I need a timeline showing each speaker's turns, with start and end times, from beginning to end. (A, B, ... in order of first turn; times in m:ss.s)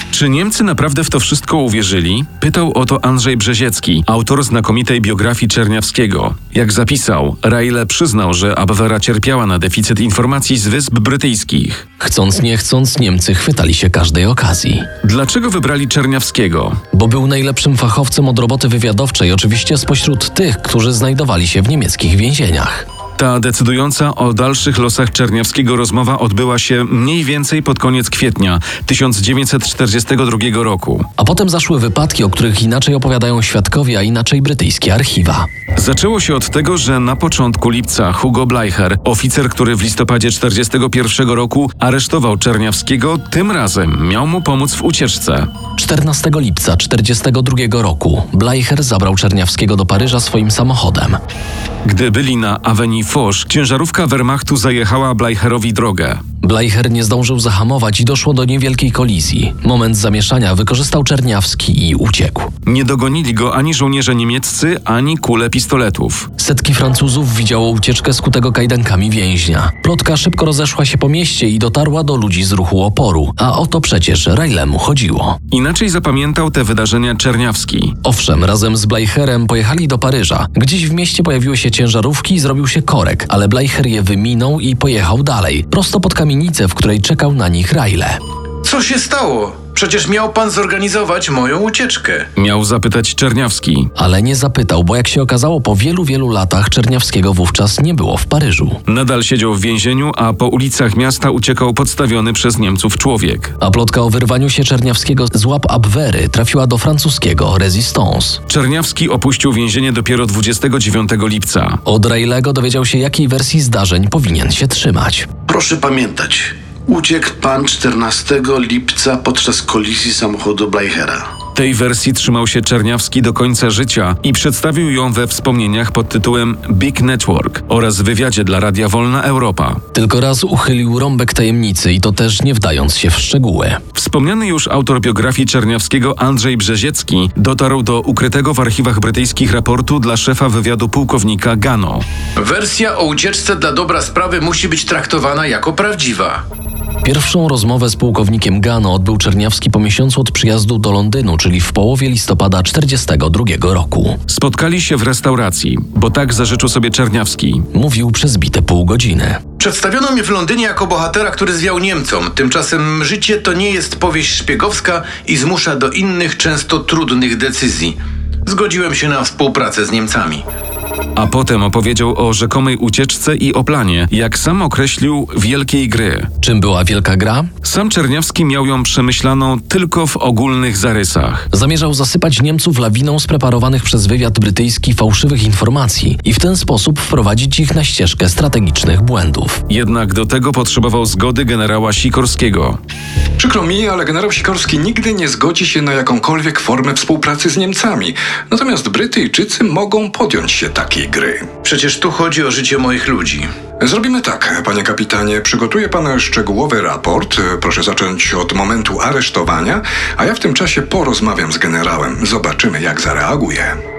0:00.1-0:11.8 A
0:12.0-0:14.9 B
0:15.0-0:16.8 A
0:16.9-0:22.9 B
0:23.2-0:31.1 A
0:31.2-0:35.5 B
0:35.8-0:45.5 A
0:45.8-0:51.2 B
0:51.8-0:56.2 A
0:56.4-1:02.5 B
1:02.7-1:06.3 A
1:06.4-1:15.4 B
1:15.5-1:18.0 A
1:18.0-1:28.2 B
1:28.6-1:32.3 C
1:32.4-1:33.9 A
1:34.0-1:38.8 B
1:38.9-1:43.6 A
1:43.6-1:48.4 B
1:48.5-1:51.8 A
1:51.8-1:55.3 B
1:55.5-2:01.2 D
2:01.6-2:09.8 A
2:09.9-2:13.8 B
2:13.9-2:22.0 A
2:22.4-2:26.4 C
2:27.0-2:34.2 B
2:34.3-2:37.7 A
2:37.7-2:39.4 B
2:39.6-2:50.4 C
2:51.2-2:56.3 A
2:56.4-2:57.5 B
2:57.6-3:01.5 A
3:01.5-3:09.6 B
3:09.7-3:12.8 A
3:13.4-3:21.5 E
3:21.6-3:23.5 C
3:23.8-3:33.8 E